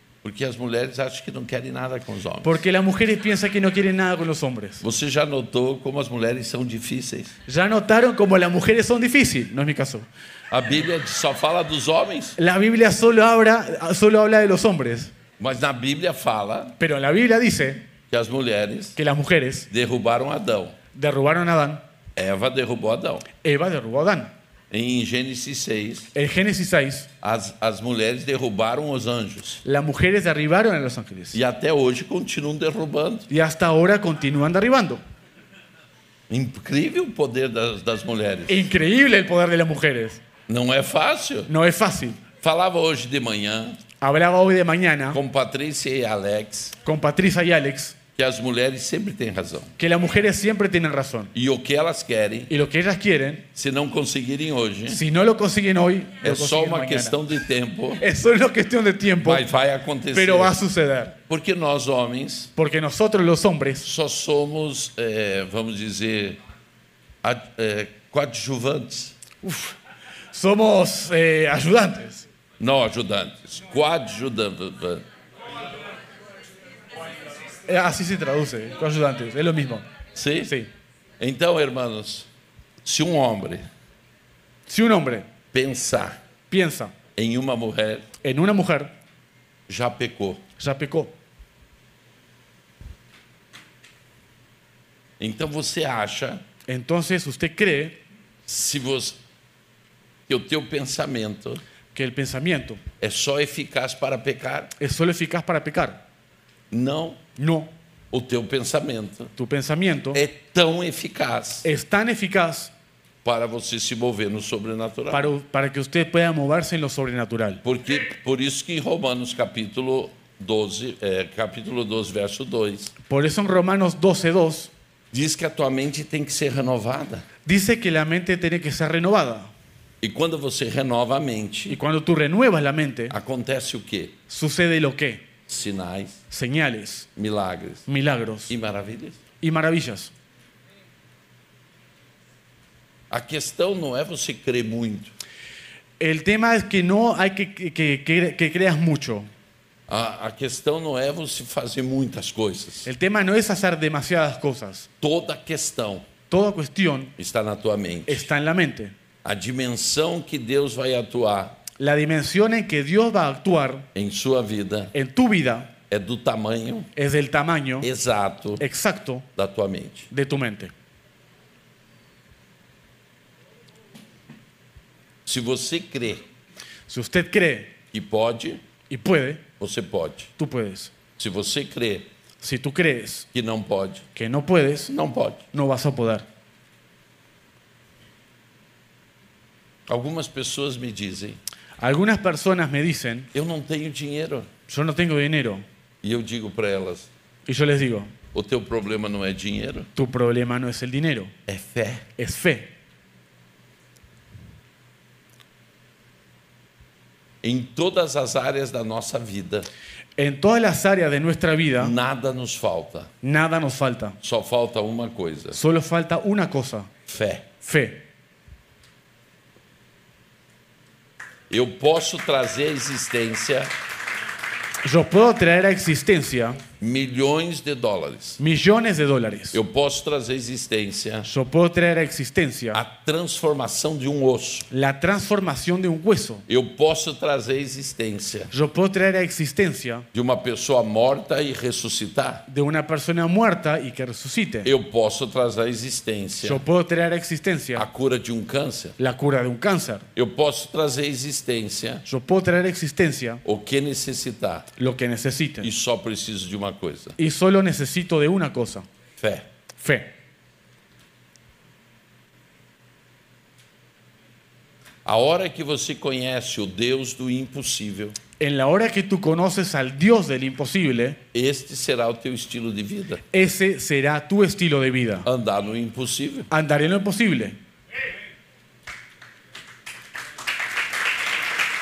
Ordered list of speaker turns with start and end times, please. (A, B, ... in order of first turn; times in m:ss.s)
0:00.2-0:02.6 A
0:02.4-0:04.8 B
0:04.8-0:07.3 A
0:07.5-0:10.1 B
0:10.5-0:12.4 A
0:12.4-0:15.1 B
0:15.4-0:16.8 A
0:16.8-0:17.9 B
0:18.1-0:19.0 A
0:19.0-0:19.7 B
0:19.7-0:20.8 A
0:20.9-0:21.8 B
0:22.2-0:23.3 A
0:23.4-0:24.3 B
0:24.7-0:26.1 A
0:26.1-0:27.1 B
0:27.2-0:29.6 A
0:29.6-0:31.4 B
0:31.3-0:33.3 A
0:33.3-0:35.0 B
0:36.3-0:38.7 A
0:38.5-0:40.2 B
0:40.5-0:41.5 A
0:41.5-0:42.2 B
0:42.4-0:43.8 A
0:44.0-0:45.2 B
0:45.1-0:46.8 A
0:46.8-0:48.0 B
0:48.2-0:49.7 A
0:49.8-0:51.3 B
0:51.3-0:52.5 A
0:52.5-0:53.5 B
0:53.5-0:55.0 A
0:54.9-0:57.2 B
0:56.2-0:58.0 A
0:58.0-0:59.4 B
0:59.2-1:00.6 A
1:00.1-1:01.2 B
1:01.3-1:02.5 A
1:02.6-1:03.8 B
1:03.8-1:06.4 A
1:07.2-1:09.1 A
1:09.4-1:09.8 B
1:10.3-1:12.3 B
1:12.6-1:15.0 A
1:17.6-1:19.8 B
1:20.1-1:20.5 A
1:21.2-1:22.3 A
1:22.8-1:23.7 A
1:24.7-1:25.3 B
1:25.5-1:26.2 A
1:26.5-1:26.9 B
1:27.1-1:28.1 A
1:28.2-1:29.0 B
1:29.7-1:30.4 A
1:30.6-1:31.1 B
1:35.2-1:36.4 A
1:36.7-1:38.0 B
1:38.5-1:39.2 A
1:40.3-1:41.6 A
1:41.9-1:42.8 B
1:43.0-1:44.7 A
1:44.8-1:46.0 B
1:46.7-1:47.2 A
1:47.4-1:47.7 B
1:48.1-1:49.3 A
1:49.4-1:50.2 B
1:50.1-1:51.7 A
1:51.6-1:52.7 B
1:53.2-1:55.3 A
1:55.1-1:57.6 B
1:57.6-2:02.9 A
2:03.0-2:04.7 B
2:05.1-2:07.2 A
2:07.4-2:09.5 B
2:10.0-2:11.8 A
2:11.7-2:13.2 B
2:13.1-2:14.1 A
2:14.3-2:15.3 B
2:15.5-2:16.2 A
2:16.3-2:17.1 B
2:17.2-2:17.9 A
2:17.9-2:18.5 B
2:18.5-2:19.2 A
2:19.4-2:20.1 B
2:23.1-2:25.1 A
2:26.0-2:29.3 B
2:29.9-2:32.9 A
2:32.8-2:34.9 B
2:35.0-2:36.1 A
2:36.3-2:37.1 B
2:37.2-2:38.3 A
2:38.1-2:38.9 B
2:39.2-2:41.6 A
2:41.8-2:43.9 B
2:43.9-2:44.9 A
2:44.9-2:45.7 B
2:45.9-2:46.9 A
2:46.9-2:47.9 B
2:47.8-2:48.6 A
2:48.6-2:49.3 B
2:49.3-2:50.1 A
2:50.1-2:50.7 B
2:55.2-2:56.2 A
2:56.9-2:57.8 B
2:57.9-2:58.6 A
2:58.9-2:59.4 B
2:59.6-3:00.3 A
3:00.4-3:00.9 B
3:01.2-3:02.1 A
3:02.4-3:03.3 B
3:03.3-3:04.0 A
3:04.1-3:04.9 B
3:04.9-3:05.4 A
3:05.5-3:06.3 B
3:09.9-3:11.4 A
3:11.8-3:13.3 B
3:13.3-3:14.5 A
3:14.7-3:15.6 B
3:16.0-3:17.1 A
3:17.4-3:18.1 B
3:18.3-3:19.9 A
3:19.9-3:21.3 B
3:21.4-3:22.1 A
3:22.2-3:22.7 B
3:27.4-3:29.7 A
3:30.2-3:31.9 B
3:31.8-3:33.1 A
3:33.2-3:34.2 B
3:34.2-3:35.6 A
3:35.5-3:36.9 B
3:37.1-3:37.5 A
3:37.6-3:38.1 B
3:41.5-3:43.7 A
3:44.8-3:46.6 B
3:46.8-3:48.4 A
3:48.4-3:49.6 B
3:49.5-3:51.3 A
3:51.2-3:52.8 B
3:52.7-3:54.7 A
3:54.7-3:56.4 B
3:56.5-3:58.5 A
3:58.5-4:00.0 B
4:00.1-4:02.4 A
4:02.5-4:04.7 B
4:04.6-4:06.6 A
4:06.4-4:07.9 B
4:07.7-4:09.0 A
4:09.0-4:10.1 B
4:10.1-4:12.0 A
4:12.0-4:13.4 B
4:13.4-4:14.7 A
4:14.8-4:15.7 B
4:15.6-4:17.2 A
4:17.2-4:18.9 B
4:19.2-4:19.5 A
4:19.8-4:20.1 B
4:25.0-4:28.2 A
4:28.4-4:31.2 B
4:31.3-4:33.2 A
4:33.3-4:35.3 B
4:35.2-4:36.5 A
4:36.5-4:37.6 B